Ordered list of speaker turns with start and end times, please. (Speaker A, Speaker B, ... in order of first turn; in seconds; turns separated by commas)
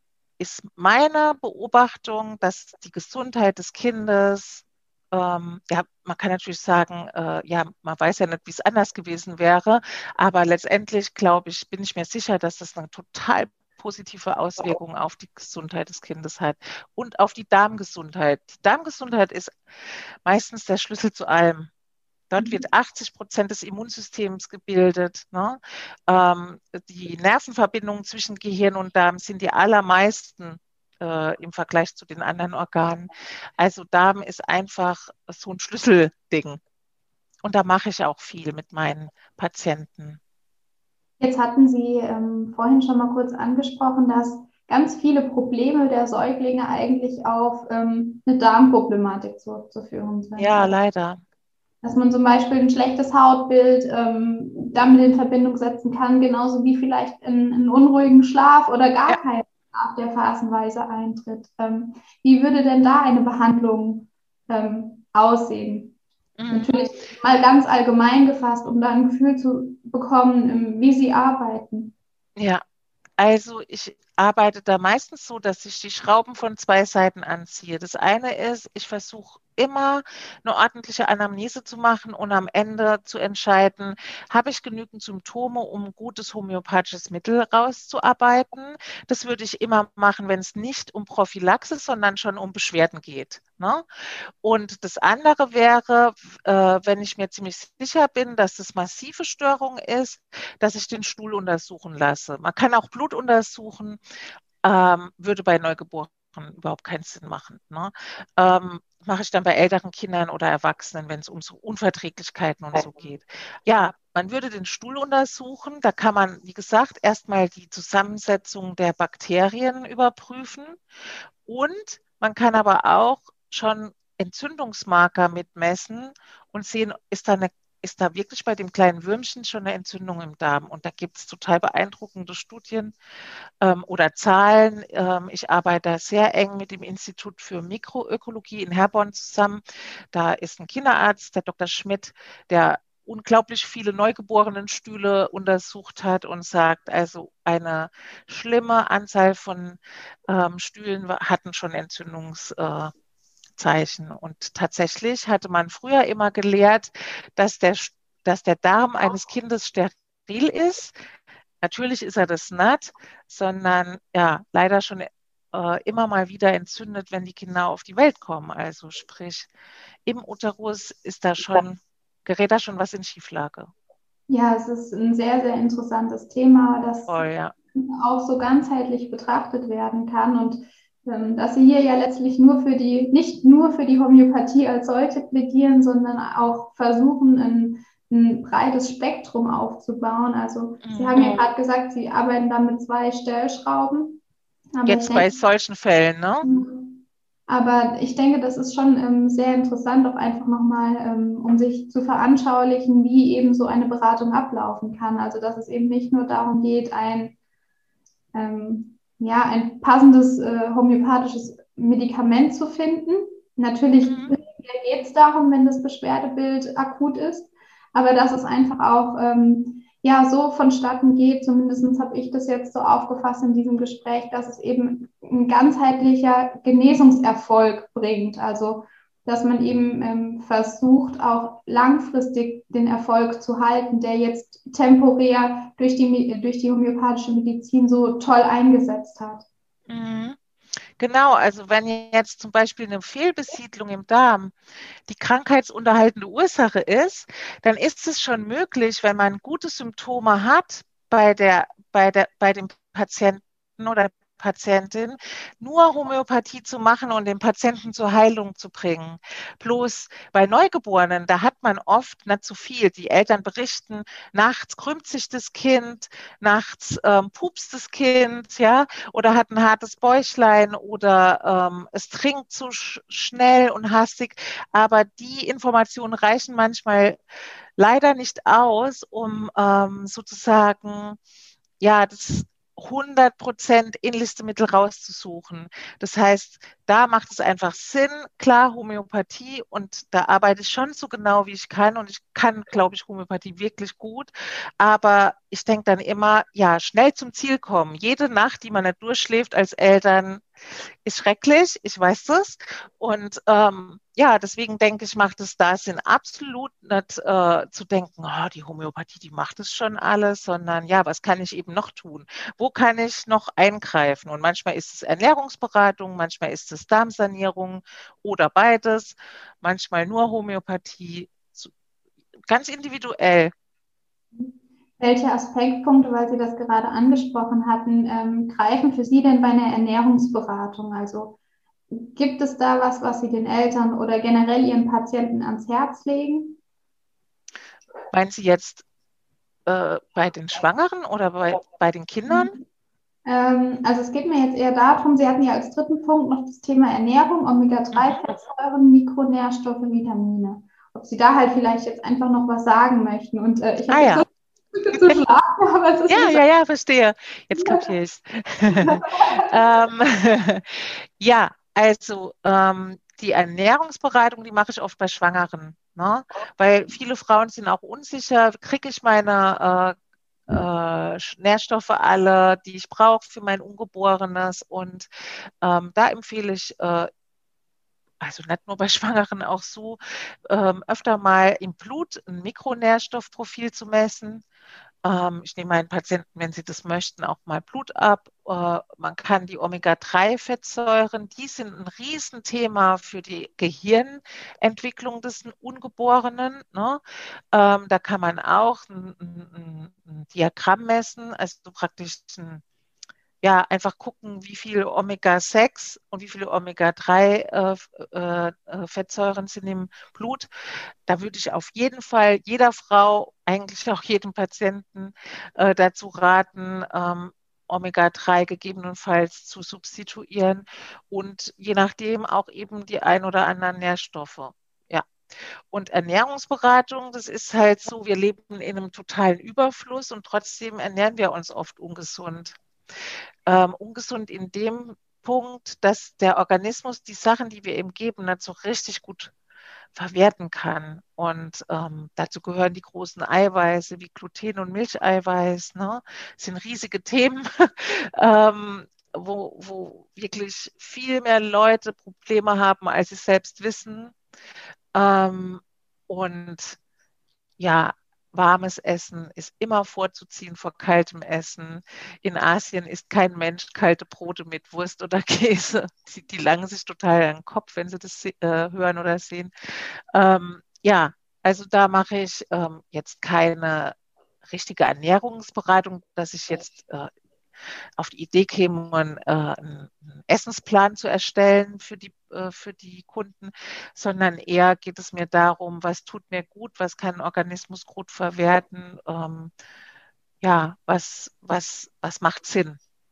Speaker A: 0.4-19.5, Speaker A: 20.2-21.7, Speaker A: 22.3-36.6, Speaker B: 22.4-22.6, Speaker A: 37.4-40.2, Speaker B: 41.2-50.8, Speaker A: 50.4-51.2, Speaker B: 51.8-66.0, Speaker A: 66.4-67.0, Speaker B: 66.5-71.9, Speaker A: 72.4-72.6, Speaker A: 73.2-93.8, Speaker A: 94.4-104.0, Speaker A: 104.6-120.8, Speaker A: 121.4-132.9, Speaker A: 133.6-139.6, Speaker A: 140.1-152.9, Speaker A: 153.6-161.0, Speaker A: 161.6-169.5, Speaker A: 170.1-173.7, Speaker B: 174.3-194.2, Speaker A: 177.1-177.5, Speaker A: 190.8-191.4, Speaker B: 194.7-195.3, Speaker A: 194.8-196.5, Speaker B: 196.4-207.3, Speaker B: 208.3-239.4, Speaker A: 214.0-214.3, Speaker A: 239.9-240.4, Speaker A: 241.0-244.5, Speaker A: 245.1-277.2, Speaker A: 277.8-281.2, Speaker A: 281.8-300.4, Speaker A: 301.0-321.7, Speaker A: 322.5-323.5, Speaker B: 324.3-331.4, Speaker B: 331.9-336.6, Speaker A: 338.1-338.8, Speaker A: 339.6-342.5, Speaker B: 342.3-342.6, Speaker B: 343.2-356.4, Speaker A: 347.9-348.2, Speaker A: 353.9-354.2, Speaker A: 356.1-369.9, Speaker B: 357.5-357.9, Speaker B: 358.7-359.5, Speaker A: 370.5-375.1, Speaker A: 375.6-377.1, Speaker A: 378.2-384.4, Speaker A: 385.0-397.0, Speaker A: 397.5-402.6, Speaker A: 403.4-410.5, Speaker A: 411.1-425.1, Speaker A: 425.7-432.6, Speaker A: 433.5-439.3, Speaker A: 439.9-454.1, Speaker A: 454.9-456.8, Speaker A: 457.6-477.1, Speaker A: 478.0-489.5, Speaker A: 490.4-492.8